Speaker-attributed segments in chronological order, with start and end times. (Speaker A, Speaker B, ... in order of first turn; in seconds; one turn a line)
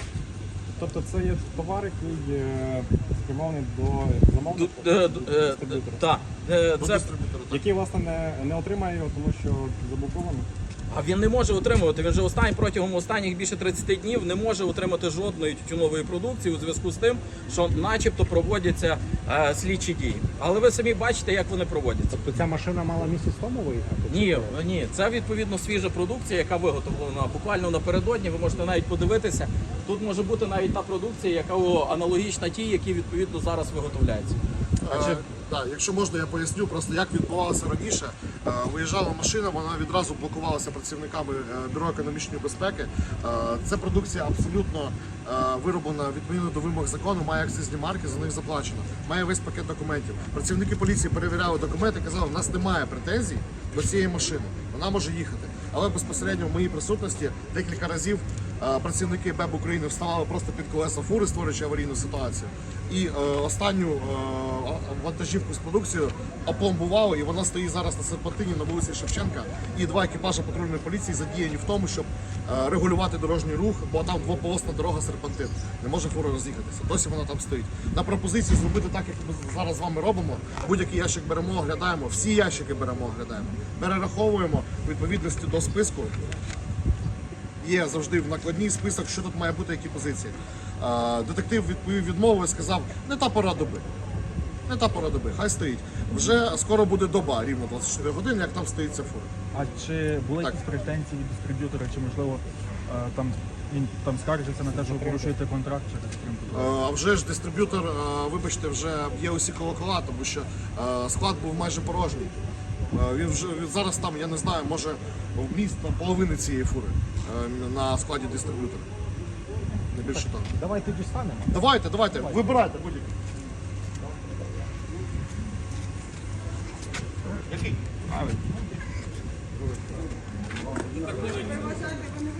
Speaker A: 0.8-6.0
Speaker B: 4.6-7.1
Speaker C: 6.8-7.7
Speaker A: 7.5-10.5
Speaker B: 10.9-22.2
Speaker D: 22.1-24.6
Speaker B: 24.1-34.4
Speaker C: 34.8-86.2
Speaker B: 34.9-35.2
Speaker C: 87.6-93.8
Speaker C: 94.7-99.3
Speaker E: 99.5-106.7
Speaker D: 104.9-105.2
Speaker C: 106.5-112.3
Speaker C: 112.9-118.9
Speaker C: 119.9-120.5
Speaker D: 120.0-121.6
Speaker C: 121.5-123.1
Speaker D: 122.2-122.4
Speaker E: 128.1-128.4
Speaker B: 131.0-132.0